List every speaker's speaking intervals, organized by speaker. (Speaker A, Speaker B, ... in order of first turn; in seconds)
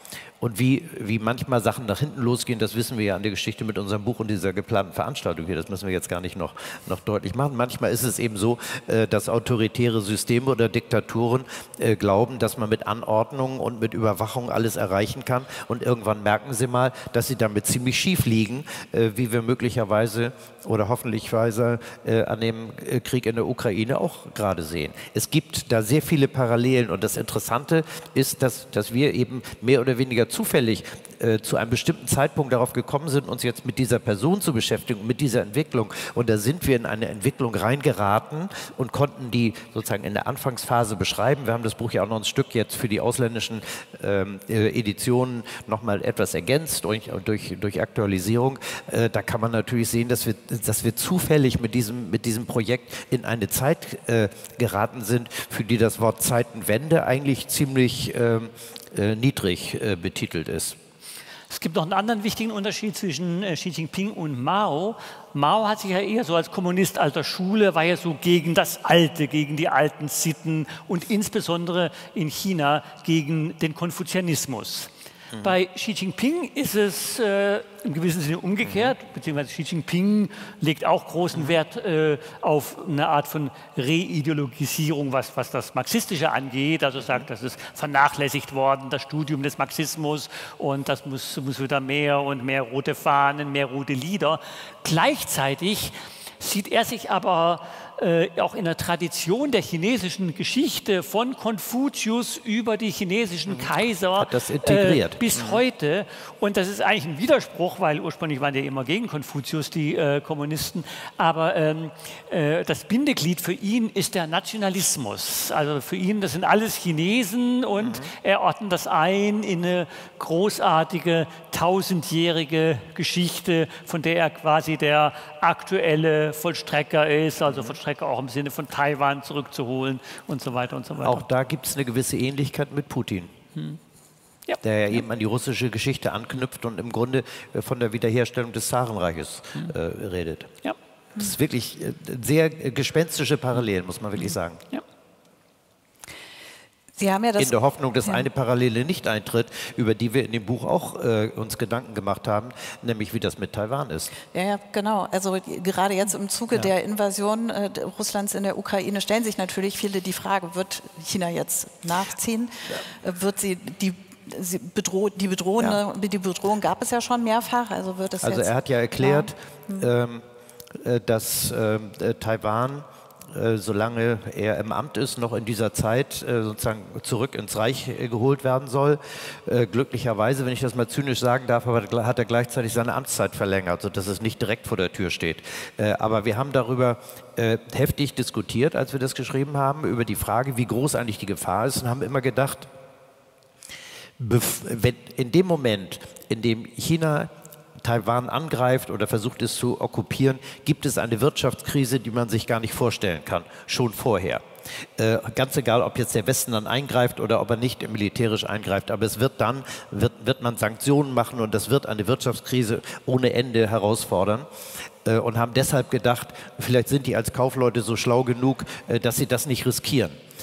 Speaker A: 0.4-60.8, 75.3-75.6, 78.6-78.9, 87.0-87.2, 103.5-105.6, 117.8-118.1, 127.5-127.8, 131.0-133.3, 134.6-140.5, 141.2-144.6, 147.4-154.1, 168.2-192.7, 194.2-204.4, 205.0-214.5, 215.0-220.2
Speaker B: 61.5-74.9, 75.4-131.2
Speaker C: 146.9-148.2, 154.3-169.9